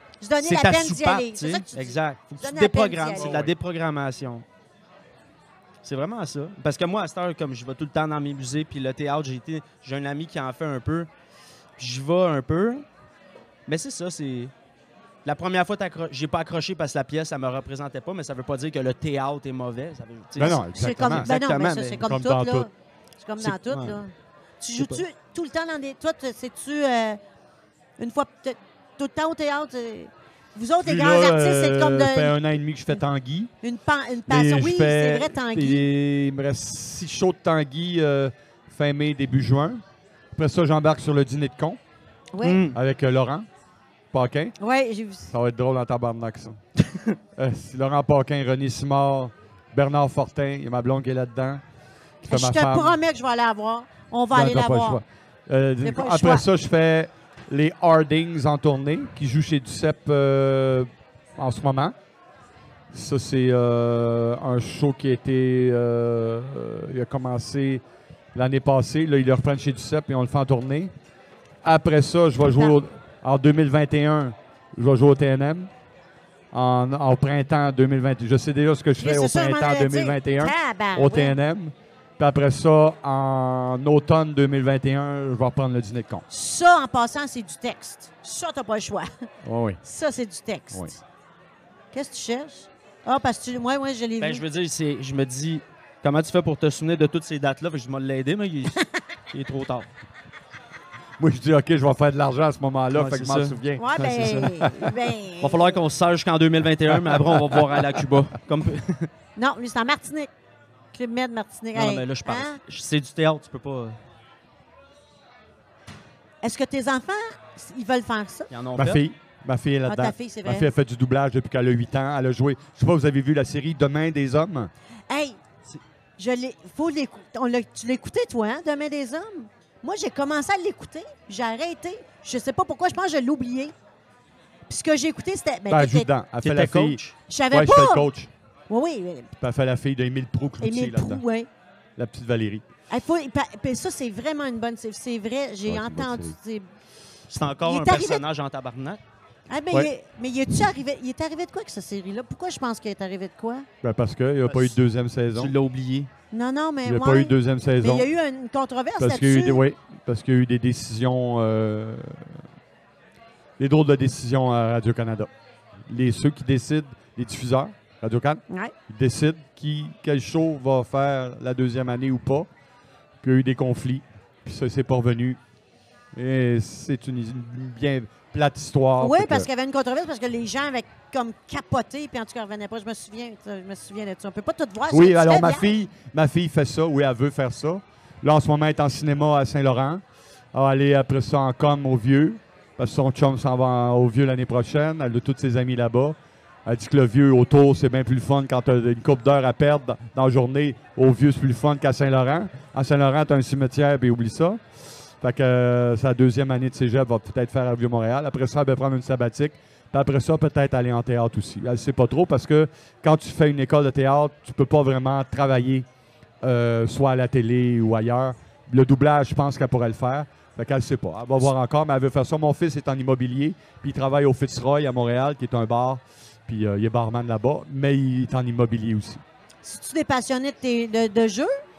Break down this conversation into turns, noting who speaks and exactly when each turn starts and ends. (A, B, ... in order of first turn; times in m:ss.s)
0:00.2-0:03.3 A
0:00.4-0:04.4 B
0:03.1-0:03.5 C
0:05.8-0:11.1 B
0:11.8-0:12.8 B
0:13.7-0:14.5 B
0:15.2-0:22.0 B
0:20.4-0:21.3 C
0:20.7-0:27.2 A
0:22.0-0:22.7 C
0:23.4-0:24.0 B
0:24.8-0:25.0 B
0:28.0-0:32.4 A
0:30.8-0:33.5 C
0:33.6-0:35.9 A
0:34.3-0:39.8 C
0:40.3-0:41.8 C
0:42.3-0:42.6 A
0:42.4-0:42.8 B
0:42.7-0:43.5 C
0:44.1-0:44.6 C
0:44.6-0:45.3 A
0:45.3-0:46.6 C
0:47.4-0:51.6 C
0:52.2-0:53.0 C
0:52.3-0:55.0 A
0:54.3-1:01.9 C
0:55.8-0:56.4 A
1:02.9-1:10.9 C
1:11.6-1:15.7 C
1:16.5-1:26.2 C
1:19.0-1:21.3 A
1:26.3-1:29.1 A
1:29.4-1:29.8 C
1:29.8-1:31.0 A
1:31.9-1:34.4 A
1:34.2-1:38.8 B
1:39.3-1:39.9 B
1:41.2-1:44.9 C
1:42.9-1:44.6 B
1:43.8-1:45.8 A
1:45.4-1:49.1 B
1:46.9-1:48.0 C
1:49.4-1:50.3 A
1:50.9-1:52.6 A
1:51.7-1:54.0 B
1:56.4-1:58.5 A
1:58.5-1:59.0 B
1:58.8-2:04.7 C
1:59.9-2:00.7 A
2:05.1-2:05.4 A
2:06.2-2:13.7 A
2:14.7-2:16.1 A
2:15.7-2:17.0 C
2:16.4-2:17.1 B
2:17.3-2:18.1 A
2:17.5-2:18.3 C
2:18.7-2:19.3 A
2:19.4-2:21.2 C
2:20.6-2:21.5 A
2:22.0-2:22.6 C
2:22.9-2:26.7 A
2:25.6-2:26.3 C
2:27.3-2:29.0 B
2:27.6-2:28.2 A
2:29.5-2:33.6 A
2:33.8-2:35.5 C
2:34.5-2:34.8 B
2:35.3-2:36.1 B
2:36.3-2:39.6 A
2:36.8-2:38.1 C
2:39.0-2:42.3 C
2:43.6-2:45.3 C
2:45.9-2:52.5 C
2:48.5-2:48.7 A
2:53.2-2:55.4 C
2:56.1-2:59.5 C
2:59.0-3:05.7 A
3:04.9-3:10.0 C
3:10.5-3:24.6 C
3:25.2-3:35.8 C
3:36.4-3:49.2 C
3:49.6-3:51.5 A